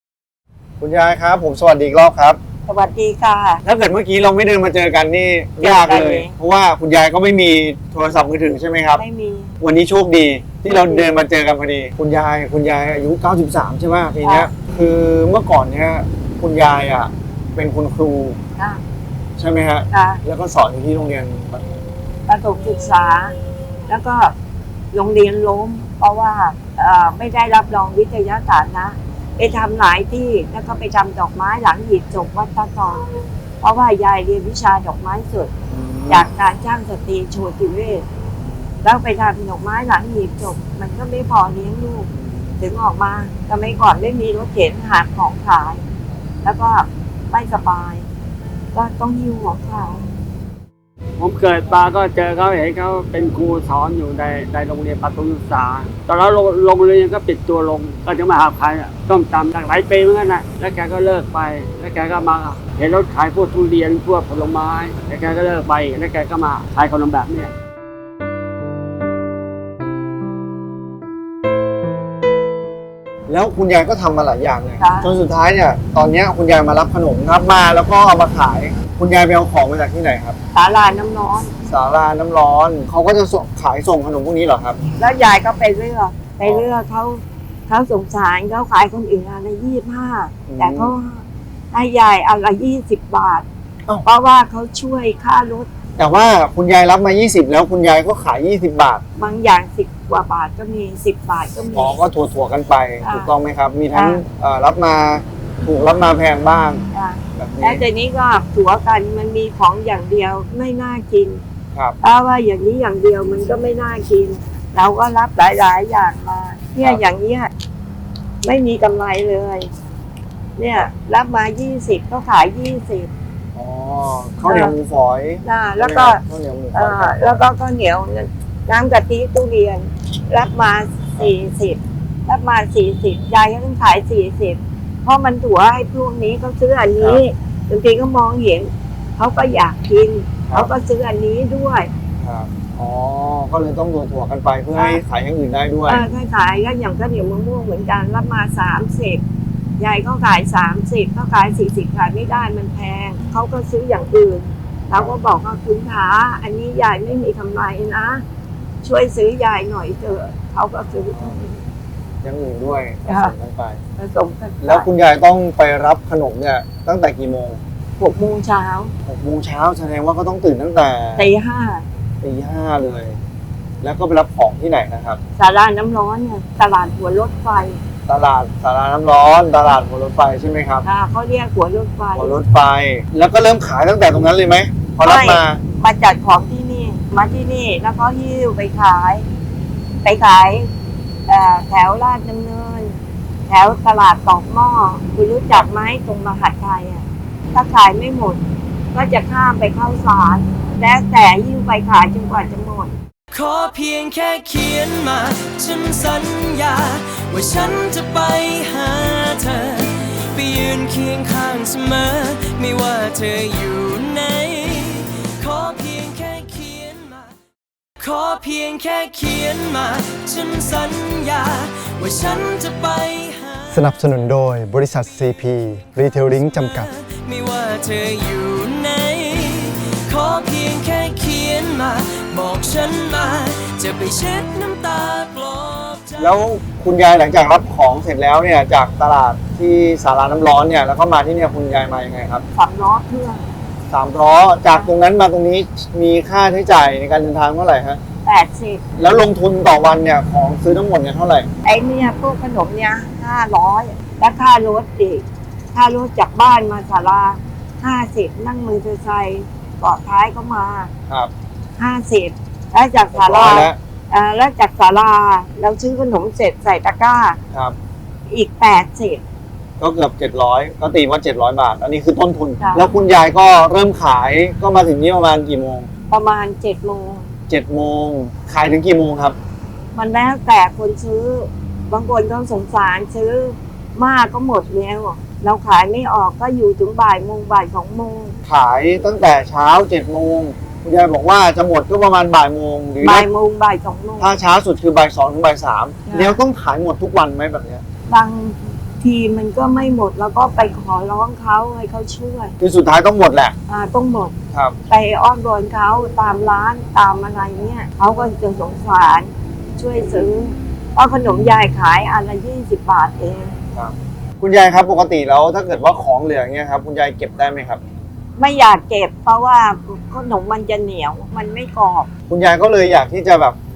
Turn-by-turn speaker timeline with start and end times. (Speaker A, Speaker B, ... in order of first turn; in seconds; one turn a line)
Speaker A: 0.8-2.4
Speaker B: 2.6-3.6
Speaker A: 3.6-9.0
Speaker B: 5.6-6.3
Speaker B: 9.0-9.5
Speaker A: 9.6-18.4
Speaker B: 10.7-11.1
Speaker B: 14.2-14.5
Speaker A: 19.4-21.7
Speaker B: 19.9-20.2
Speaker B: 22.3-23.3
Speaker B: 23.9-24.3
Speaker B: 24.9-33.0
Speaker B: 33.6-35.5
Speaker A: 35.7-36.3
Speaker B: 36.1-38.0
Speaker B: 38.8-45.8
Speaker A: 42.1-42.5
Speaker B: 46.4-48.1
Speaker B: 48.7-50.0
Speaker C: 51.2-67.5
Speaker A: 73.3-80.3
Speaker B: 74.8-75.1
Speaker B: 80.5-81.5
Speaker A: 81.7-84.8
Speaker B: 85.0-93.5
Speaker A: 86.4-86.7
Speaker A: 90.5-90.9
Speaker B: 94.0-95.7
Speaker A: 96.0-99.0
Speaker B: 99.2-102.0
Speaker A: 101.7-106.8
Speaker B: 103.0-103.3
Speaker B: 103.9-104.2
Speaker B: 106.9-111.4
Speaker A: 107.3-107.8
Speaker B: 112.0-117.5
Speaker B: 118.4-119.7
Speaker B: 120.6-123.1
Speaker A: 123.5-127.4
Speaker B: 124.5-124.7
Speaker B: 125.4-126.2
Speaker B: 126.7-141.9
Speaker A: 142.2-146.0
Speaker B: 144.7-145.0
Speaker B: 145.8-149.2
Speaker B: 149.8-158.2
Speaker B: 158.8-161.6
Speaker A: 162.2-163.8
Speaker B: 163.1-163.3
Speaker B: 164.0-164.9
Speaker A: 164.6-167.6
Speaker B: 168.0-168.9
Speaker A: 169.1-171.3
Speaker B: 171.2-171.8
Speaker A: 172.2-173.2
Speaker A: 173.8-175.2
Speaker B: 175.4-177.8
Speaker A: 178.1-180.8
Speaker B: 180.8-182.3
Speaker A: 182.2-185.6
Speaker B: 185.0-189.3
Speaker B: 190.0-190.7
Speaker B: 191.3-193.0
Speaker B: 193.5-198.4
Speaker B: 198.9-202.9
Speaker D: 203.3-217.3
Speaker D: 218.0-223.8
Speaker A: 223.7-226.9
Speaker D: 226.0-236.3
Speaker A: 236.2-242.4
Speaker B: 242.5-243.5
Speaker A: 243.9-248.0
Speaker B: 248.2-248.8
Speaker A: 249.0-251.5
Speaker B: 251.6-260.9
Speaker B: 261.8-267.4
Speaker A: 263.1-263.8
Speaker B: 268.3-269.2
Speaker A: 269.8-275.9
Speaker B: 272.6-272.9
Speaker B: 276.1-277.3
Speaker A: 277.5-279.4
Speaker B: 279.9-288.3
Speaker A: 288.4-293.3
Speaker B: 293.0-294.3
Speaker A: 294.2-297.8
Speaker B: 296.1-296.4
Speaker B: 298.1-302.5
Speaker A: 302.6-303.5
Speaker B: 303.7-304.3
Speaker B: 304.9-313.5
Speaker A: 313.7-317.8
Speaker B: 318.4-322.1
Speaker A: 322.3-323.6